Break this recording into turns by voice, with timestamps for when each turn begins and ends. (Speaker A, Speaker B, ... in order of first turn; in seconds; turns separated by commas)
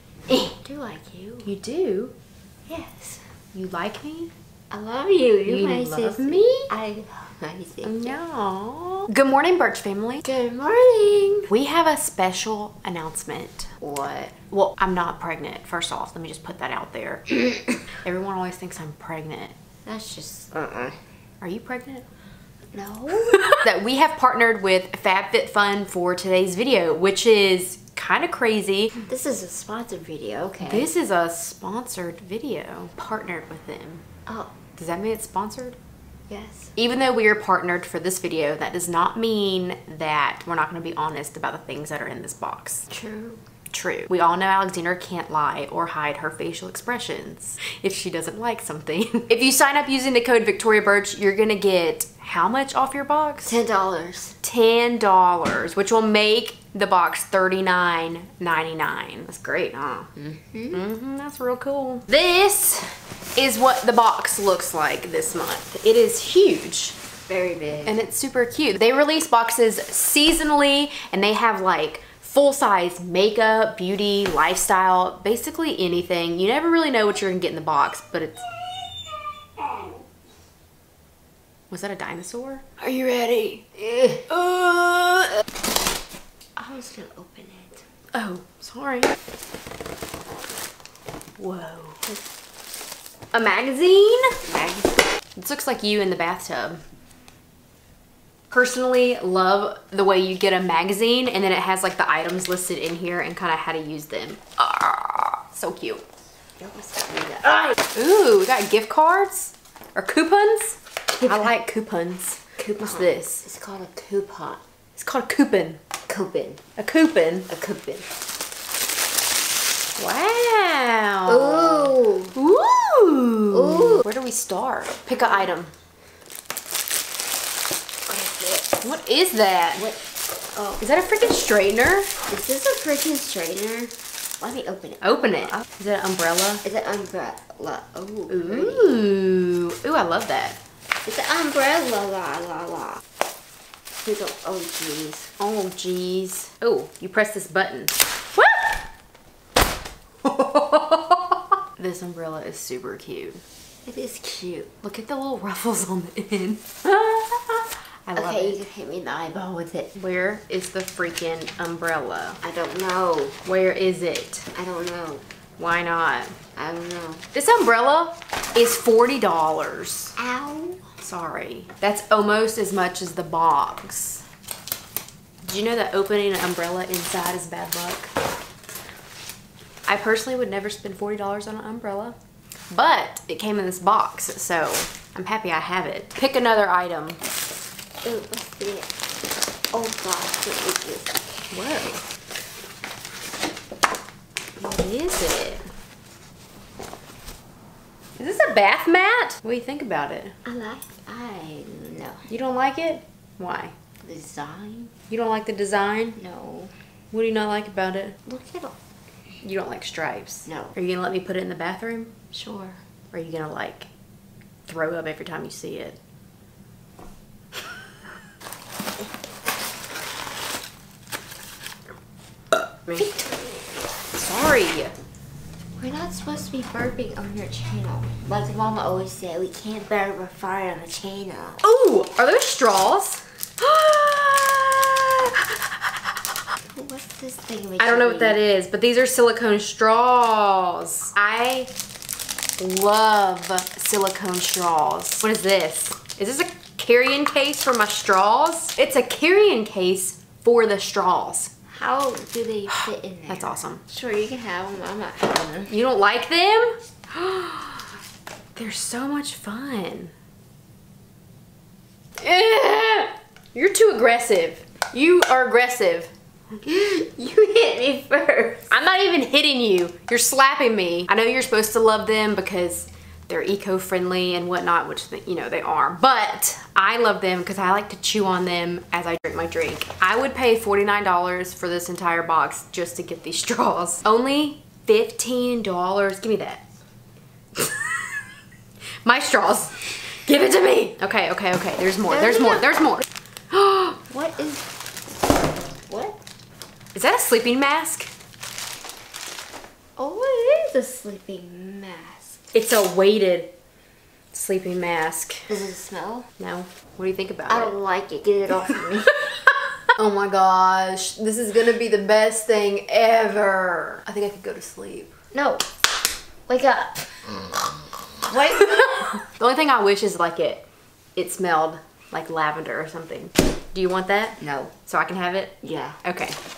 Speaker A: 0.3-0.5, Speaker B: 0.6-1.5, Speaker A: 1.4-2.1, Speaker B: 2.7-3.2, Speaker A: 3.5-4.3, Speaker B: 4.7-8.2, Speaker A: 5.5-6.7, Speaker A: 7.8-10.2, Speaker B: 10.2-11.5, Speaker A: 11.5-13.7, Speaker B: 13.8-14.3, Speaker A: 14.5-17.4, Speaker B: 17.4-17.7, Speaker A: 17.9-19.5, Speaker B: 19.8-21.0, Speaker A: 21.4-22.1, Speaker B: 22.7-23.6, Speaker A: 23.6-29.0, Speaker B: 29.0-30.9, Speaker A: 30.6-34.0, Speaker B: 34.3-34.5, Speaker A: 34.8-35.8, Speaker B: 36.3-36.7, Speaker A: 36.8-42.9, Speaker B: 42.9-43.4, Speaker A: 43.7-53.6, Speaker B: 53.4-54.4, Speaker A: 54.4-60.1, Speaker B: 60.2-60.8, Speaker A: 60.7-67.0, Speaker B: 67.3-68.0, Speaker A: 67.9-78.5, Speaker A: 81.7-82.8, Speaker B: 82.8-84.2, Speaker A: 84.3-85.3, Speaker B: 86.6-87.8, Speaker A: 88.1-89.1, Speaker A: 91.4-92.2, Speaker A: 93.3-94.4, Speaker B: 94.5-95.0, Speaker A: 95.4-96.8, Speaker A: 98.5-106.0, Speaker B: 106.6-107.8, Speaker A: 107.9-113.5, Speaker B: 112.6-114.6, Speaker A: 115.0-115.8, Speaker B: 116.1-116.6, Speaker A: 116.8-117.5, Speaker B: 117.5-118.1, Speaker A: 120.0-125.7, Speaker B: 121.3-122.4, Speaker B: 123.5-124.1, Speaker B: 128.1-128.8, Speaker A: 128.8-129.9, Speaker B: 129.8-130.0, Speaker B: 130.5-130.8, Speaker A: 130.8-132.1, Speaker B: 132.3-135.6, Speaker A: 135.0-136.6, Speaker B: 136.6-139.0, Speaker A: 138.3-140.6, Speaker B: 141.1-143.0, Speaker B: 144.0-145.3, Speaker A: 145.4-148.7, Speaker A: 150.2-151.2, Speaker A: 151.8-153.4, Speaker B: 153.8-154.7, Speaker A: 154.8-158.6, Speaker B: 158.2-159.9, Speaker A: 160.0-162.4, Speaker B: 162.4-163.4, Speaker A: 163.4-164.5, Speaker B: 164.6-165.2, Speaker A: 165.6-166.4, Speaker B: 166.6-167.2, Speaker A: 167.3-170.2, Speaker B: 170.2-170.8, Speaker A: 171.0-174.2, Speaker A: 175.4-178.1, Speaker A: 179.9-182.2, Speaker A: 182.7-187.2, Speaker B: 188.0-188.9, Speaker B: 189.7-191.2, Speaker A: 191.5-192.0, Speaker A: 194.6-195.7, Speaker A: 198.2-200.4, Speaker B: 200.4-202.3, Speaker A: 202.3-203.8, Speaker B: 204.0-204.9, Speaker A: 205.1-206.2, Speaker B: 206.2-206.7, Speaker A: 207.1-208.2, Speaker B: 208.2-208.8, Speaker A: 209.4-212.2, Speaker B: 210.5-210.8, Speaker B: 212.3-212.8, Speaker A: 213.1-213.9, Speaker A: 214.7-216.0, Speaker A: 222.5-223.1, Speaker A: 224.1-224.9, Speaker B: 225.8-231.6, Speaker A: 231.6-236.0, Speaker B: 236.7-238.4, Speaker A: 237.8-241.7, Speaker A: 242.6-251.5, Speaker B: 251.7-255.8, Speaker A: 252.7-253.8, Speaker A: 255.7-257.9, Speaker A: 258.6-260.1, Speaker A: 262.2-266.1, Speaker B: 266.6-268.7, Speaker A: 268.7-286.6, Speaker A: 287.6-288.2, Speaker A: 289.0-293.9, Speaker B: 292.1-292.8, Speaker B: 293.9-294.6, Speaker B: 295.9-296.2, Speaker A: 296.9-298.1, Speaker B: 300.0-302.5, Speaker A: 302.5-303.5, Speaker A: 304.3-305.5, Speaker B: 305.5-306.3, Speaker A: 306.4-307.7, Speaker B: 307.5-309.4, Speaker A: 309.9-315.1, Speaker B: 315.3-315.7, Speaker B: 316.5-317.1, Speaker B: 318.2-319.2, Speaker A: 319.2-320.6, Speaker A: 321.1-326.4, Speaker B: 324.4-324.7, Speaker B: 325.6-326.0